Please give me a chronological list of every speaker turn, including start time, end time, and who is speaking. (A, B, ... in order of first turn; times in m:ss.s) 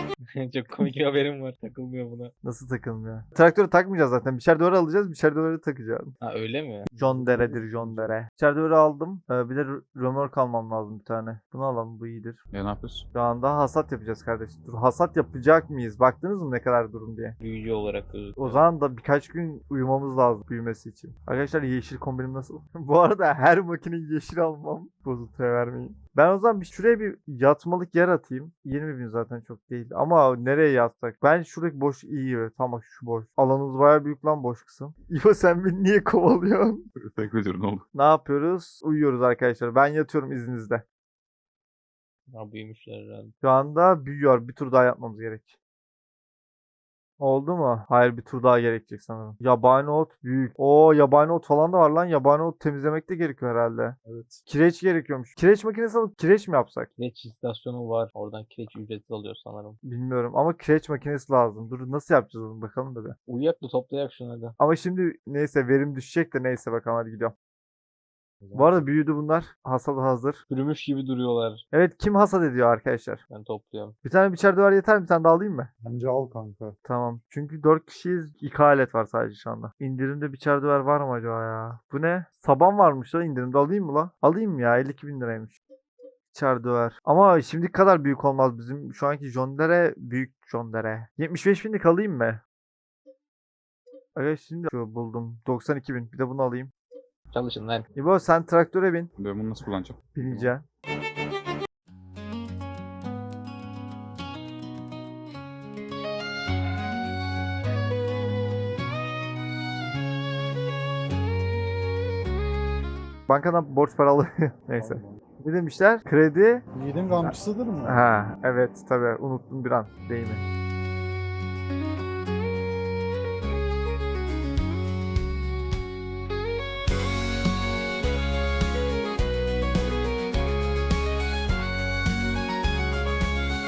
0:00.3-0:02.3 A
0:02.4-0:06.1 B
0:06.2-0:06.9 A
0:06.9-0:08.2 C
0:06.9-0:12.4 B
0:12.5-0:13.0 D
0:13.1-0:17.4 B
0:17.4-0:18.6 A
0:18.4-0:36.8 B
0:37.0-0:37.8 D
0:37.9-0:40.8 B
0:42.3-0:43.3 A
0:43.4-0:45.6 B
0:47.2-0:54.0 B
0:54.0-0:54.4 C
0:54.5-0:56.9 B
0:57.0-0:59.8 A
0:59.8-1:03.1 B
1:03.3-1:04.6 A
1:04.6-1:07.3 B
1:08.4-1:08.9 C
1:08.5-1:10.4 B
1:10.5-1:11.6 A
1:11.7-1:13.2 B
1:13.3-1:14.0 A
1:14.0-1:15.7 B
1:15.8-1:16.8 C
1:16.8-1:25.6 B
1:26.3-1:32.4 B
1:34.2-1:36.7 B
1:37.3-1:37.8 A
1:38.0-1:39.1 B
1:39.2-1:40.5 D
1:40.1-1:40.6 B
1:53.3-1:56.6 B
1:54.8-1:55.2 C
1:56.7-1:58.0 C
1:57.2-2:00.4 B